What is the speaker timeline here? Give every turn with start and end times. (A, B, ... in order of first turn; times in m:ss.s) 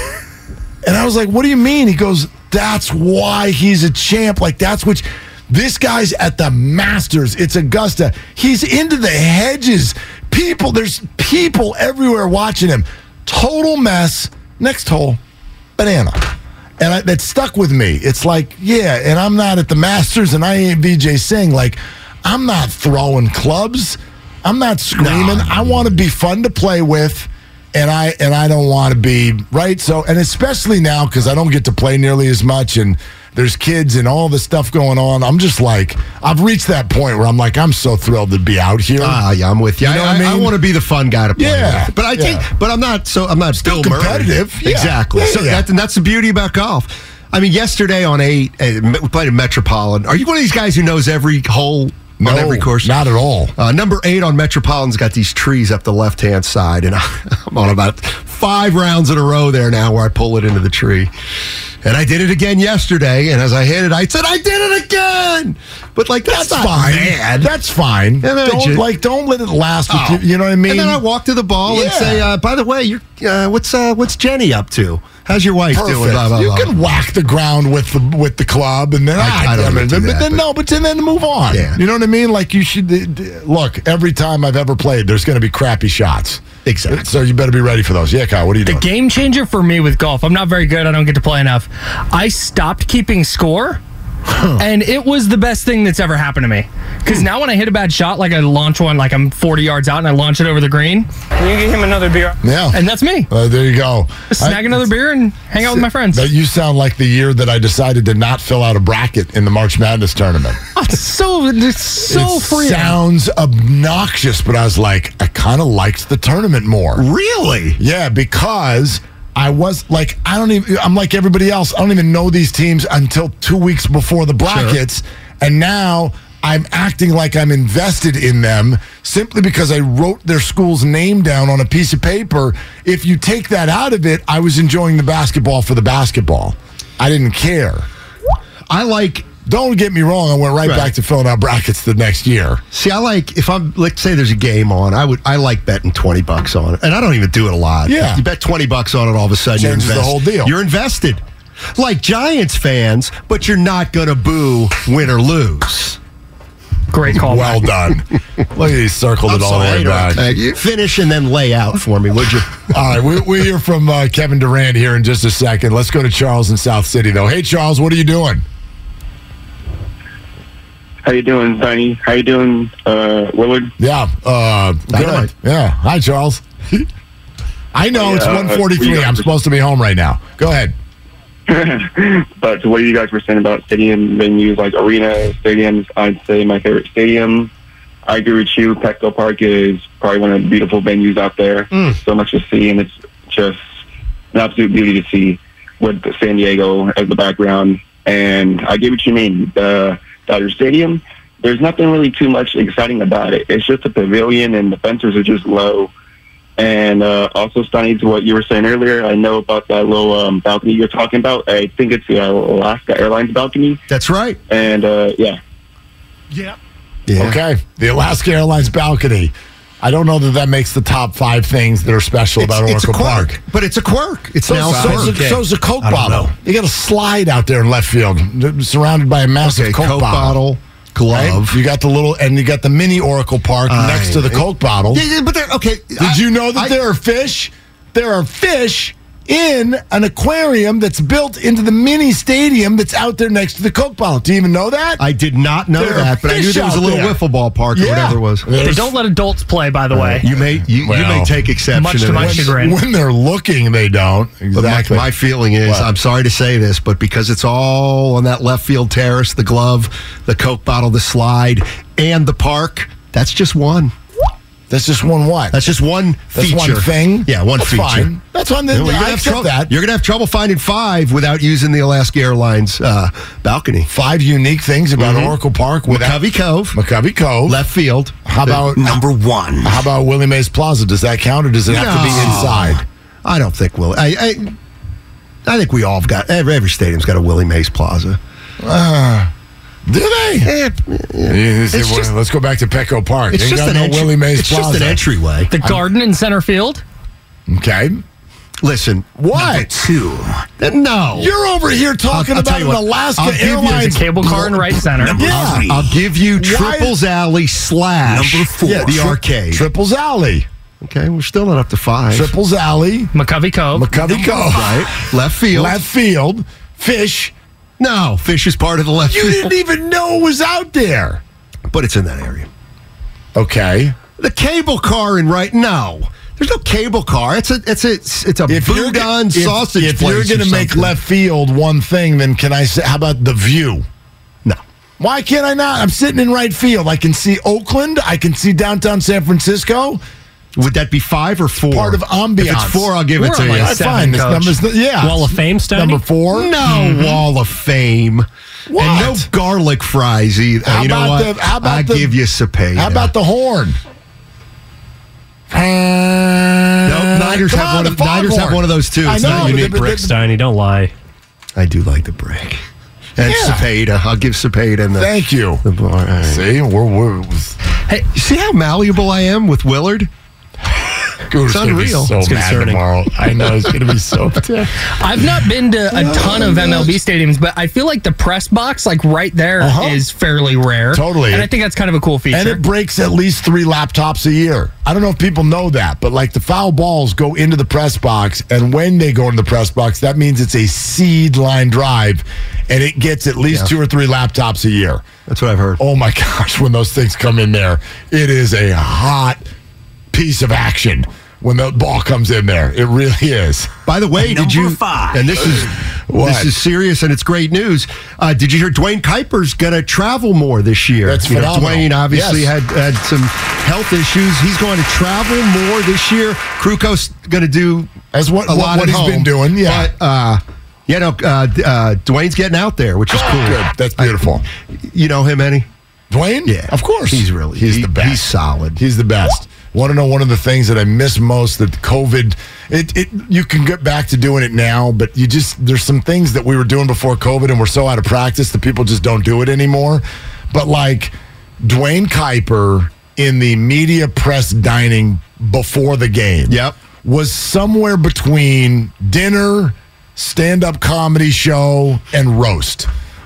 0:00.8-0:15.2 A
0:15.8-0:39.2 A
0:25.0-0:26.0 B
0:39.0-0:52.9 B
0:39.8-0:40.5 A
0:41.4-0:42.5 A
0:43.6-0:45.6 A
0:52.2-0:53.5 A
0:53.6-1:01.1 B
1:01.8-1:07.2 B
1:06.2-1:11.0 A
1:08.2-1:08.8 B
1:09.9-1:16.8 B
1:11.6-1:12.3 A
1:15.7-1:28.8 A
1:19.2-1:20.4 B
1:21.5-1:21.8 B
1:26.6-1:27.0 B
1:28.6-1:33.8 C
1:34.3-1:34.6 A
1:34.6-1:43.3 C
1:42.4-1:44.9 A
1:44.3-1:46.3 C
1:45.6-1:50.6 A
1:50.7-1:53.0 C
1:52.1-1:57.0 A
1:57.0-1:57.8 B
1:57.8-2:17.9 A
2:04.4-2:04.8 B
2:18.7-2:19.3 B
2:19.4-2:22.6 A
2:20.6-2:20.9 B
2:22.7-2:31.2 B
2:27.8-2:28.2 A
2:29.5-2:30.5 A
2:31.7-2:36.0 B
2:36.9-2:37.7 C
2:37.0-2:40.5 A
2:39.3-2:42.6 B
2:42.7-2:48.4 A
2:51.0-2:53.7 D
2:53.8-2:56.9 A
2:54.9-2:55.3 B
2:57.7-3:00.7 A
2:57.9-2:59.3 D
3:01.5-3:07.5 D
3:08.0-3:13.6 D
3:14.3-3:25.9 D
3:26.6-3:33.8 D
3:33.9-3:34.4 B
3:34.5-3:35.4 D
3:37.1-3:37.4 B
3:37.2-3:43.4 A
3:42.4-3:46.2 B
3:44.4-3:50.4 A
3:44.7-3:45.0 E
3:49.4-3:51.6 B
3:51.1-3:55.0 A
3:53.7-3:56.7 B
3:56.0-4:05.0 A
4:05.0-4:08.5 B
4:05.7-4:07.2 A
4:07.7-4:09.0 A
4:08.6-4:10.3 C
4:10.0-4:11.3 A
4:10.2-4:12.5 B
4:11.7-4:12.8 C
4:12.1-4:15.1 A
4:14.5-4:23.9 B
4:15.6-4:15.9 A
4:24.7-4:25.6 A
4:25.5-4:28.1 B
4:26.3-4:29.7 A
4:28.7-4:33.9 B
4:33.9-4:37.6 A
4:35.0-4:35.4 B
4:35.9-4:36.8 B
4:37.5-4:38.6 B
4:38.2-4:39.0 A
4:38.7-4:39.8 E
4:39.6-4:42.8 A
4:41.7-4:44.6 B
4:45.4-4:48.2 B
4:48.6-4:49.3 A
4:49.9-4:50.5 A
4:50.4-4:52.1 B
4:51.2-4:55.0 A
4:53.3-4:55.5 B
4:55.5-4:56.8 C
4:57.5-4:58.0 A
4:58.6-4:59.1 B
4:59.2-4:59.7 A
4:59.4-5:00.4 E
5:00.6-5:01.3 B
5:01.1-5:04.3 A
5:02.1-5:04.7 B
5:03.7-5:05.2 C
5:04.9-5:06.0 E
5:05.2-5:05.7 A
5:05.2-5:09.6 B
5:06.4-5:07.0 A
5:08.0-5:09.1 E
5:08.6-5:10.5 A
5:10.8-5:12.3 B
5:12.1-5:13.1 A
5:13.1-5:13.9 C
5:13.7-5:14.9 A
5:14.0-5:15.8 B
5:15.5-5:17.3 A
5:17.8-5:19.5 B
5:19.1-5:21.2 A
5:21.7-5:22.5 B
5:23.3-5:24.0 A
5:24.2-5:30.9 B
5:28.5-5:33.8 A
5:35.0-5:40.0 A
5:40.6-5:43.8 B
5:41.7-5:42.9 A
5:43.1-5:44.6 C
5:43.5-5:47.1 A
5:45.0-5:46.0 F
5:46.3-5:53.1 B
5:48.7-5:49.3 A
5:50.6-5:52.2 A
5:52.7-5:53.8 A
5:55.5-6:00.1 A
5:56.8-5:59.8 B
5:59.2-6:00.9 F
6:01.6-6:02.6 B
6:03.2-6:05.1 B
6:03.2-6:03.7 A
6:04.9-6:05.6 A
6:05.6-6:06.4 B
6:06.2-6:07.6 A
6:08.1-6:10.1 B
6:11.2-6:14.8 A
6:11.4-6:12.1 B
6:12.2-6:12.8 F
6:14.8-6:22.6 C
6:15.9-6:17.0 A
6:19.6-6:20.0 A
6:20.9-6:21.5 A
6:22.3-6:35.0 A
6:35.3-6:35.8 B
6:35.8-6:39.5 A
6:40.1-6:43.8 A
6:43.8-6:57.9 B
6:44.2-6:45.4 E
6:46.1-6:46.5 A
6:51.0-6:52.5 A
6:58.1-6:59.9 A
6:58.5-7:04.2 B
7:03.1-7:04.5 A
7:04.8-7:05.7 B
7:06.1-7:32.9 A
7:06.4-7:08.8 B
7:26.5-7:26.8 B